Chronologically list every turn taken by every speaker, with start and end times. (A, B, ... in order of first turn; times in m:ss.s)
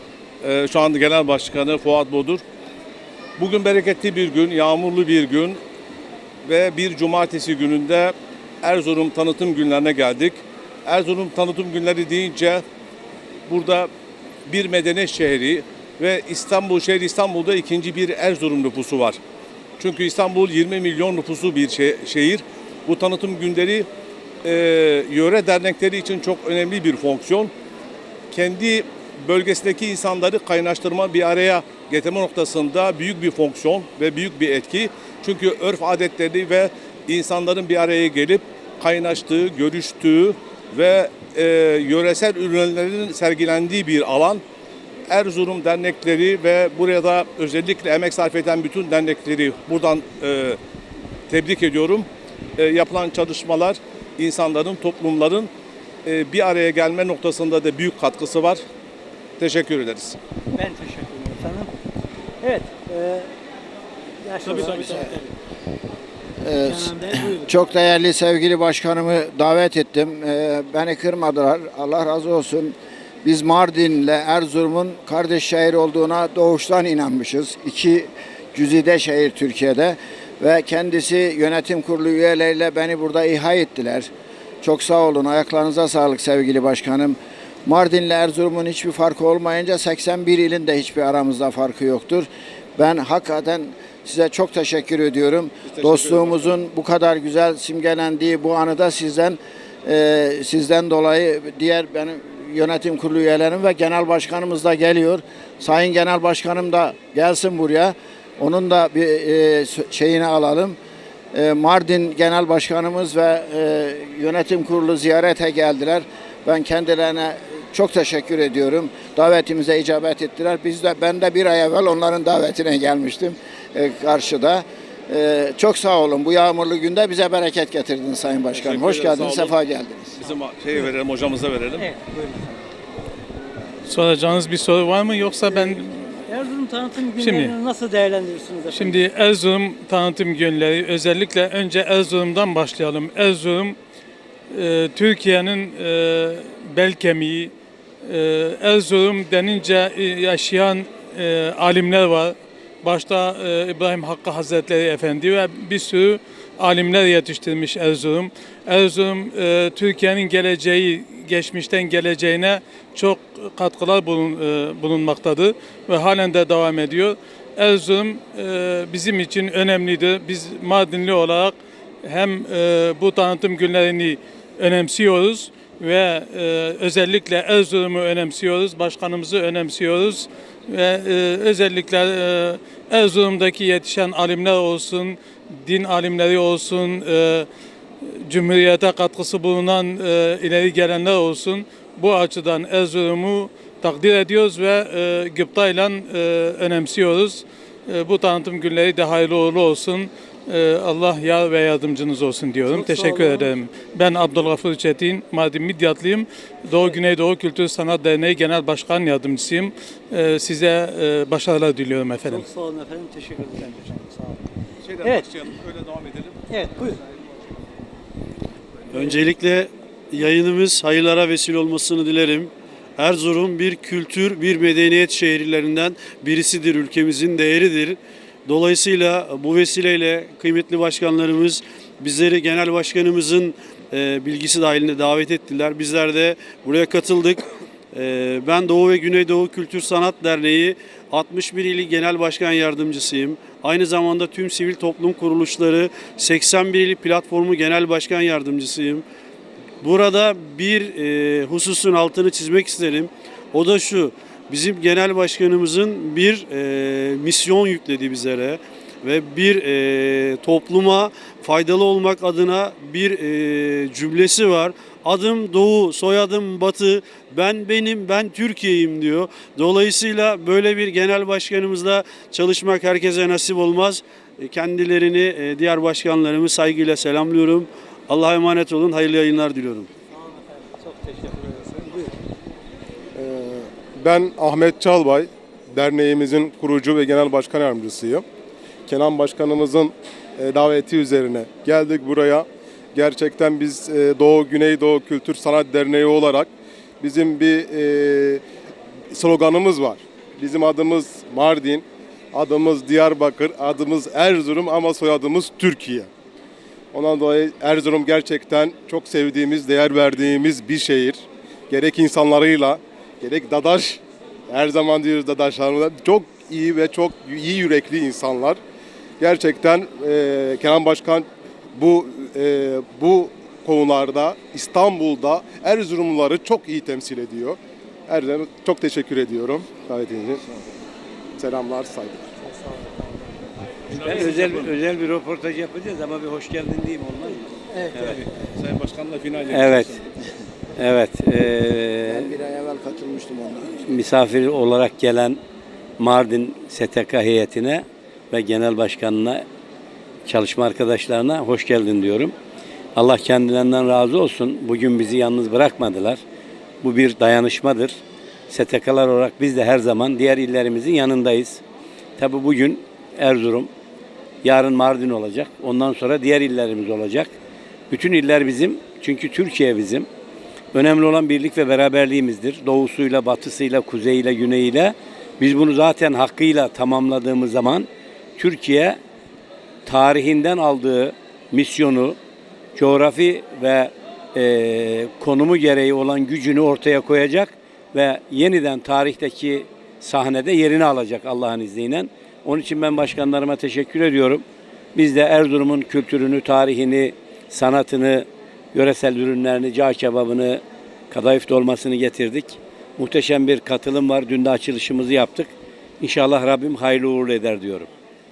0:00.4-0:02.4 A
0:03.4-0:05.6 A
0:06.4-0:12.6 A
0:13.5-0:13.9 A
0:14.5-0:19.2 A
0:19.8-0:23.9 A
0:24.4-0:27.5 A
0:28.3-0:44.4 A
0:45.1-0:50.6 A
0:51.3-0:55.5 A
0:56.0-0:58.6 A
0:59.4-1:00.2 A
1:00.5-1:01.7 B
1:02.4-1:03.3 B
1:04.2-1:05.2 B
1:04.6-1:05.2 C
1:06.4-1:24.1 C
1:06.6-1:07.5 B
1:24.6-1:50.8 C
1:35.7-1:36.5 A
1:51.3-2:10.2 C
2:08.5-2:09.6 A
2:10.2-2:11.9 A
2:11.8-2:12.7 B
2:13.9-2:16.0 D
2:15.5-2:19.0 B
2:17.1-2:17.6 D
2:18.7-2:23.8 D
2:24.5-2:27.5 D
2:28.0-3:07.5 D
3:08.1-3:32.5 D
3:22.7-3:23.5 B
3:32.2-3:34.4 B
3:34.8-3:36.6 A
3:35.0-3:35.3 B
3:36.5-3:37.0 B
3:38.9-3:39.4 B
3:39.3-3:42.4 E
3:40.2-3:40.9 B
3:41.4-3:42.5 B
3:43.0-3:47.9 E
3:43.1-3:43.9 B
3:44.6-3:46.5 B
3:48.5-3:57.4 E
3:51.0-3:51.6 B
3:58.0-4:09.0 E
4:03.0-4:03.6 B
4:05.4-4:07.3 B
4:08.1-4:09.0 B
4:09.8-4:13.0 E
4:10.6-4:11.0 B
4:11.8-4:13.1 B
4:13.6-4:18.5 E
4:19.0-4:37.5 E
4:24.2-4:25.3 B
4:26.6-4:27.8 B
4:29.4-4:30.0 B
4:31.2-4:34.0 B
4:34.7-4:38.4 B
4:38.1-4:39.9 E
4:40.8-4:42.1 B
4:43.2-4:48.2 F
4:48.9-4:56.5 F
4:57.0-4:58.4 F
4:59.1-5:06.1 F
5:06.9-5:18.6 F
5:19.2-5:30.4 F
5:31.4-5:32.3 F
5:33.9-5:34.7 A
5:33.9-5:38.2 G
5:37.8-5:40.0 A
5:39.5-5:40.0 G
5:40.8-5:42.3 G
5:42.1-5:44.0 C
5:43.9-5:45.4 G
5:46.0-5:49.4 G
5:50.3-5:52.3 G
5:53.0-5:56.2 G
5:56.8-5:58.0 G
5:58.5-6:01.6 G
6:02.2-6:03.7 G
6:04.4-6:07.3 G
6:07.9-6:10.1 G
6:10.7-6:19.0 G
6:19.9-6:22.2 G
6:22.8-6:34.4 G
6:35.0-6:45.5 G
6:46.0-6:47.9 G